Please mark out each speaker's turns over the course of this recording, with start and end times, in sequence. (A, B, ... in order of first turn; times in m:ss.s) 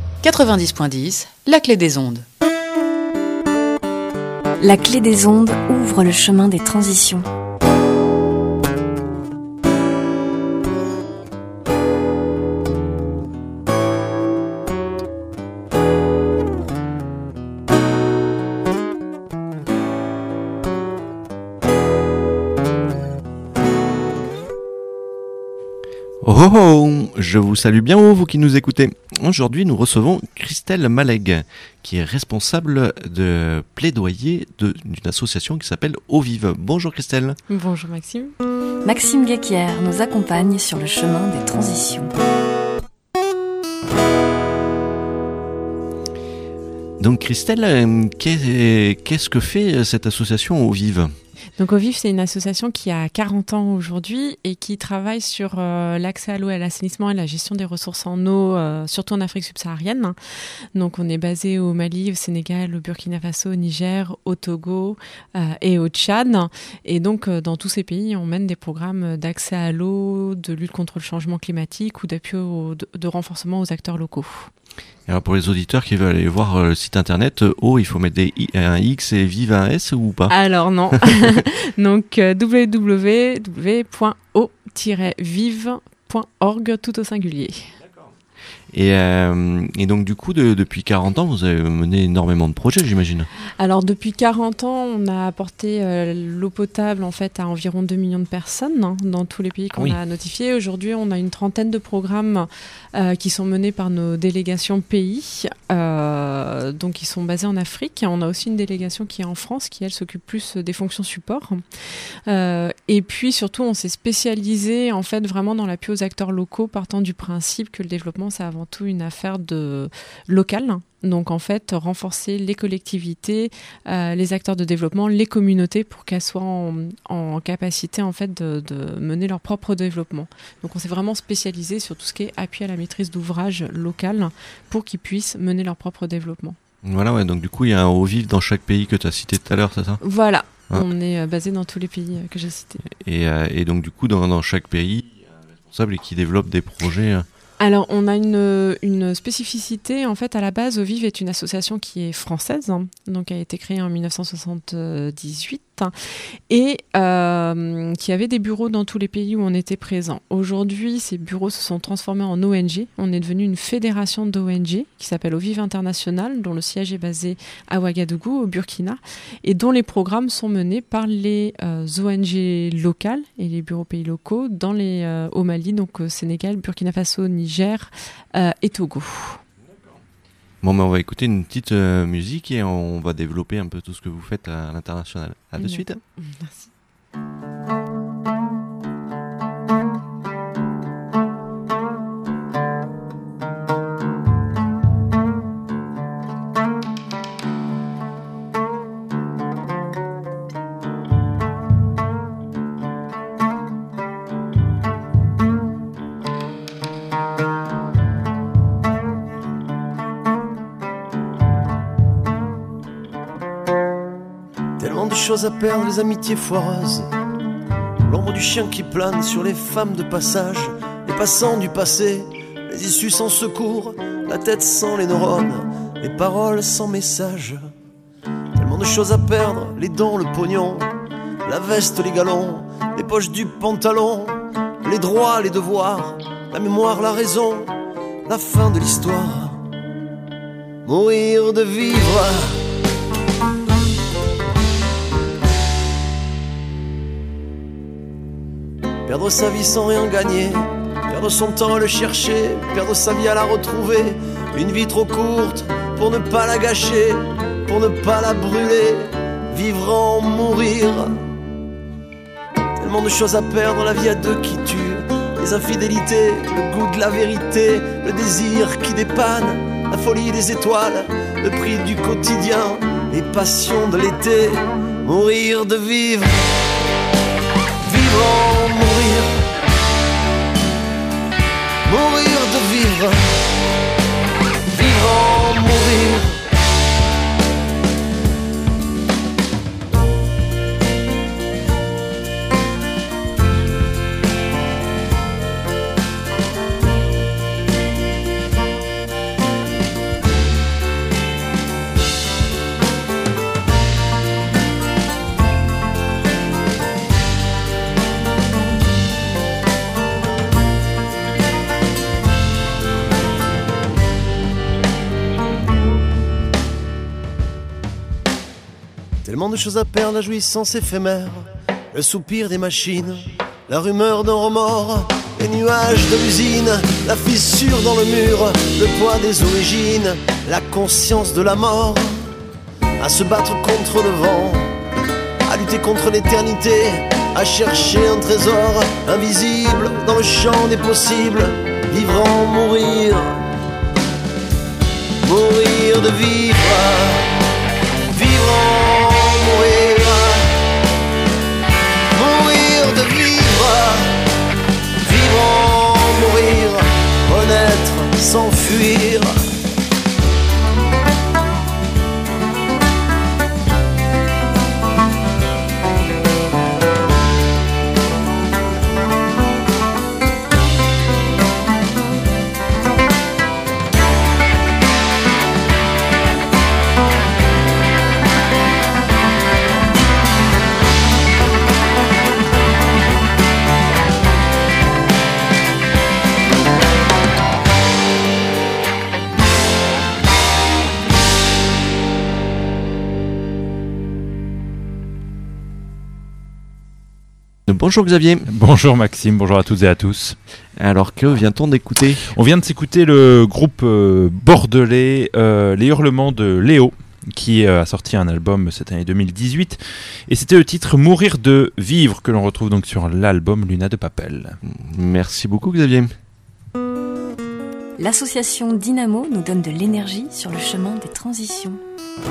0:00.2-0:02.2 A
0:04.6-0:07.3 B
0:26.2-0:37.4 C
0:37.5-0:38.4 D
0:38.8-0:42.2 B
0:47.0-0:51.2 C
0:51.6-1:00.2 D
1:00.8-1:14.5 D
1:15.1-1:20.4 C
1:20.3-1:27.8 D
1:28.7-1:33.3 C
1:33.6-1:51.6 D
1:52.3-2:16.6 D
2:16.8-2:20.0 C
2:20.0-2:22.8 D
2:22.9-2:27.3 C
2:27.6-2:35.9 D
2:36.5-2:59.4 D
3:00.6-3:06.0 C
3:05.6-3:06.7 D
3:34.8-3:37.1 E
3:38.0-3:47.7 E
3:48.6-3:50.9 E
3:51.4-3:57.7 E
3:58.3-3:59.6 E
4:00.9-4:02.6 E
4:09.1-4:21.2 E
4:22.8-4:36.5 E
4:37.8-4:39.4 E
4:41.8-4:43.4 E
4:44.7-4:46.4 E
5:19.2-5:32.3 E
5:33.0-5:34.7 E
5:35.5-5:43.4 E
5:45.2-5:47.3 E
5:48.1-5:50.5 E
5:52.1-5:54.2 E
5:55.0-5:59.4 E
6:37.7-6:38.5 C
6:38.5-6:40.4 F
6:40.8-6:42.3 C
6:42.3-6:54.6 F
6:54.6-6:56.1 C
6:58.0-7:01.8 B